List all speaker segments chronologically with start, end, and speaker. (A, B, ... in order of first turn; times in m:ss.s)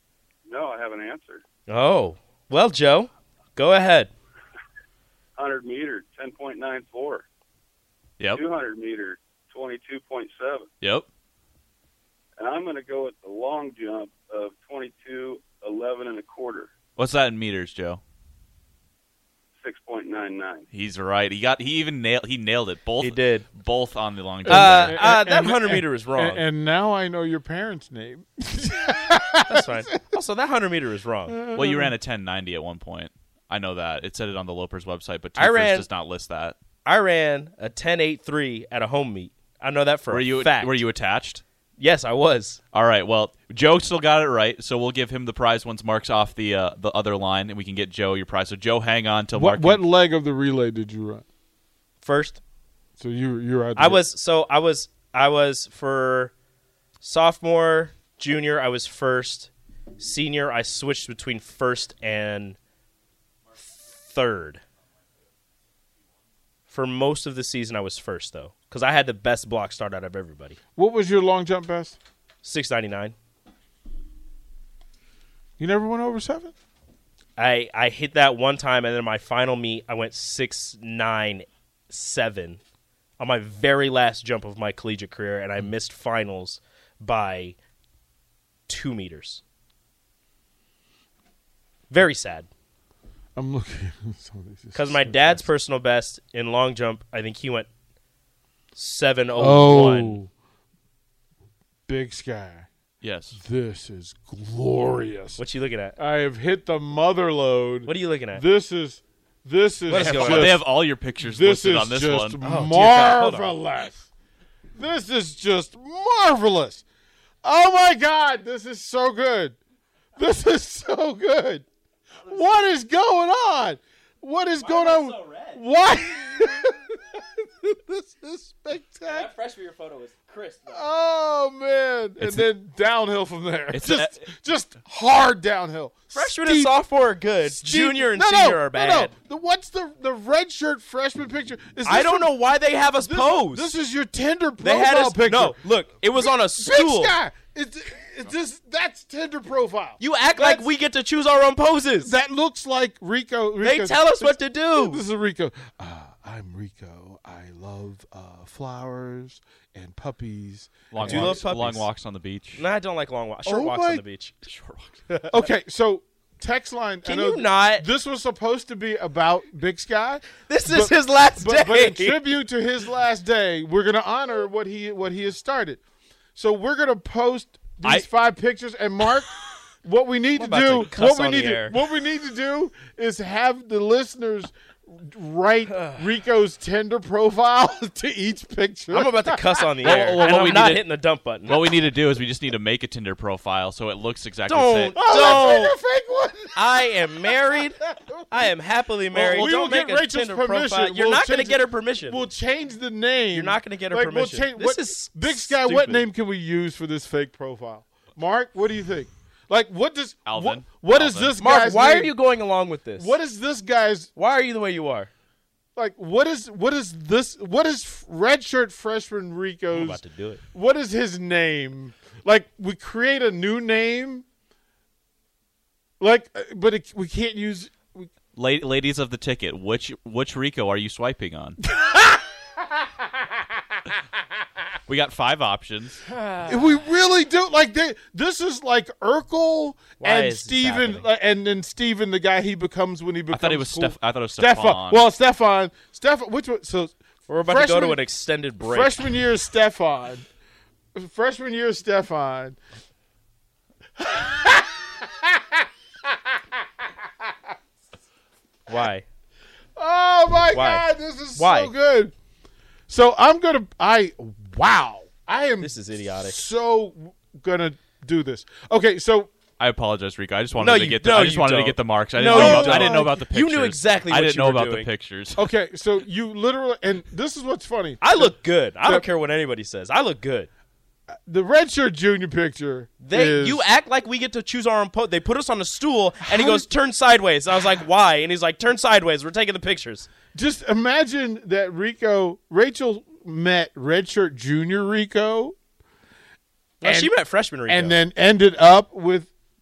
0:00.5-0:01.4 A
0:01.7-0:04.1 B
0:05.4-0:07.2 A
0:08.3-0:10.7 A
0:10.8-0:11.1 C
0:12.4-0:16.7 A
0:17.0-0:18.0 C
0:19.6-0:20.6 A
0:20.7-0:25.0 C
0:23.0-0:23.5 B
0:24.4-0:29.8 D
0:24.5-0:26.4 B
0:29.4-0:31.4 B
0:31.3-0:31.9 D
0:31.5-0:36.6 C
0:35.4-0:35.9 B
0:36.8-0:40.8 B
0:40.1-0:41.4 C
0:41.8-0:42.6 B
0:42.7-0:49.8 C
0:49.3-0:51.2 D
0:52.0-0:52.4 B
0:53.0-0:54.0 D
0:53.8-0:56.3 B
0:57.0-1:02.6 B
1:03.6-1:04.6 B
1:06.7-1:10.6 B
1:10.8-1:12.0 D
1:12.4-1:13.1 B
1:15.6-1:16.5 D
1:17.4-1:22.6 B
1:23.2-1:27.6 B
1:28.7-1:29.4 B
1:31.9-1:32.5 B
1:33.4-1:35.4 D
1:34.7-1:37.7 B
1:38.8-1:40.2 B
1:39.3-1:40.3 D
1:41.9-1:42.7 D
1:43.0-1:43.4 C
1:43.3-1:45.4 D
1:45.4-1:46.0 B
1:46.0-1:50.6 D
1:47.9-1:48.4 B
1:49.9-1:50.6 B
1:49.9-1:52.4 C
1:51.2-1:54.1 D
1:52.4-1:53.6 B
1:54.7-1:56.8 D
1:57.4-1:59.6 D
2:00.2-2:01.6 D
2:02.2-2:09.3 D
2:04.6-2:05.6 B
2:09.0-2:10.8 B
2:10.7-2:16.8 D
2:12.2-2:12.4 C
2:13.7-2:14.2 C
2:16.1-2:19.1 B
2:17.4-2:22.3 D
2:21.8-2:23.7 B
2:23.0-2:25.6 D
2:24.6-2:27.1 B
2:26.1-2:30.7 D
2:30.0-2:32.1 B
2:32.0-2:41.5 D
2:33.6-2:35.0 B
2:40.9-2:42.6 C
2:41.0-2:41.8 B
2:42.6-2:44.3 B
2:43.4-2:44.0 D
2:44.4-2:45.0 C
2:45.3-2:55.8 D
2:47.0-2:47.9 B
2:50.5-2:52.3 B
2:56.3-2:59.3 D
2:59.8-3:10.3 D
3:00.4-3:01.7 B
3:05.7-3:06.0 B
3:08.9-3:11.6 B
3:09.8-3:10.8 C
3:11.5-3:15.6 C
3:14.5-3:15.8 B
3:15.0-3:18.5 D
3:16.5-3:22.2 B
3:19.1-3:32.1 D
3:23.3-3:26.0 B
3:30.2-3:31.3 C
3:31.4-3:33.1 B
3:33.0-3:34.1 D
3:34.2-3:35.1 B
3:35.8-3:40.0 D
3:39.7-3:40.4 B
3:40.5-3:44.2 D
3:46.0-3:48.1 D
3:48.3-3:51.6 C
3:51.7-3:53.4 D
3:54.9-3:56.0 C
3:56.1-3:56.8 B
3:56.4-4:08.0 D
4:00.0-4:01.0 B
4:03.3-4:05.0 C
4:07.3-4:09.0 B
4:08.6-4:10.2 D
4:10.9-4:12.6 D
4:14.0-4:17.3 D
4:18.7-4:19.0 B
4:19.8-4:22.1 D
4:20.5-4:20.8 B
4:21.4-4:21.7 B
4:22.9-4:29.3 D
4:25.6-4:26.4 B
4:29.6-4:35.4 C
4:30.6-4:34.9 B
4:32.3-4:33.1 D
4:35.3-4:39.0 D
4:38.0-4:40.5 B
4:41.1-4:43.6 D
4:43.0-4:50.1 B
4:46.2-4:46.7 D
4:50.3-4:55.6 D
4:56.8-4:58.0 B
4:56.8-4:57.1 D
4:57.7-4:59.3 D